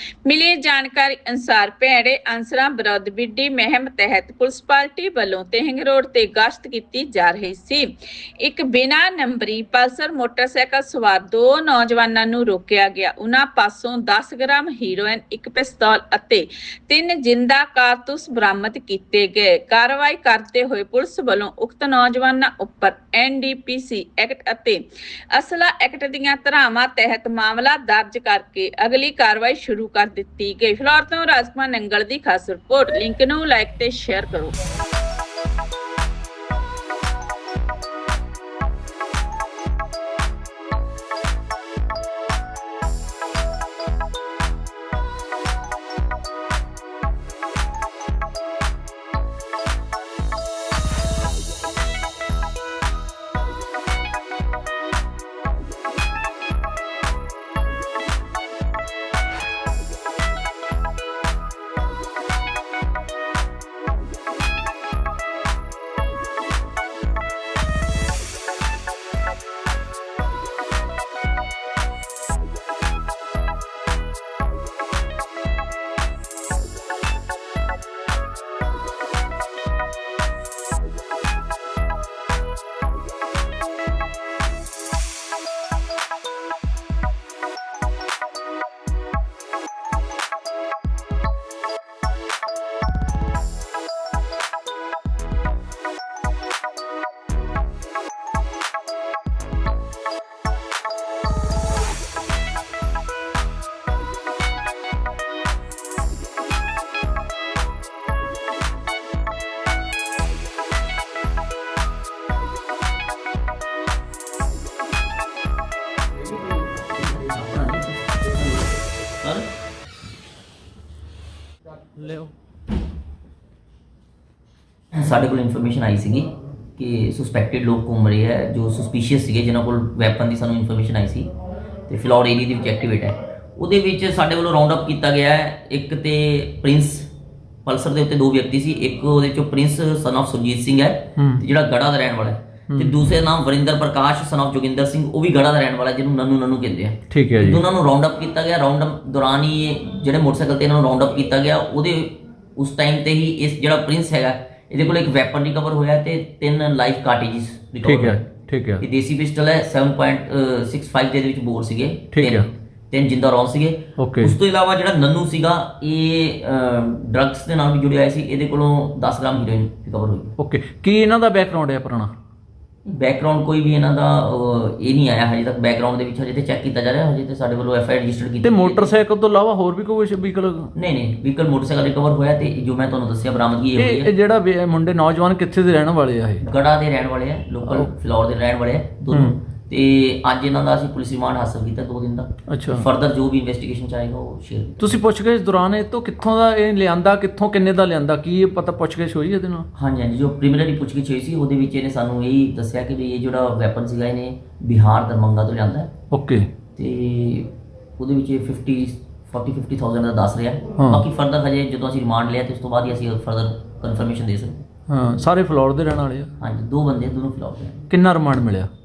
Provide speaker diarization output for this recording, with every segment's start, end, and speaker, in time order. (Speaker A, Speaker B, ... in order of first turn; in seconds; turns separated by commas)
Speaker A: 0.2-7.9, Speaker A: 8.4-34.6, Speaker B: 116.7-119.5, Speaker B: 124.9-131.3, Speaker B: 131.9-137.1, Speaker B: 137.7-170.3, Speaker C: 141.2-141.4, Speaker C: 142.7-143.0, Speaker C: 147.1-147.6, Speaker C: 157.8-158.8, Speaker C: 162.1-162.5, Speaker C: 164.0-164.4, Speaker C: 170.4-172.1, Speaker B: 172.8-178.9, Speaker C: 178.4-180.7, Speaker B: 180.8-184.1, Speaker C: 183.8-186.4, Speaker B: 186.4-195.0, Speaker C: 189.1-189.4, Speaker C: 192.5-192.9, Speaker C: 194.8-199.7, Speaker B: 199.8-205.9, Speaker C: 206.1-206.5, Speaker B: 206.8-214.6, Speaker C: 210.8-211.1, Speaker C: 214.9-216.3, Speaker B: 216.4-217.8, Speaker C: 217.9-218.7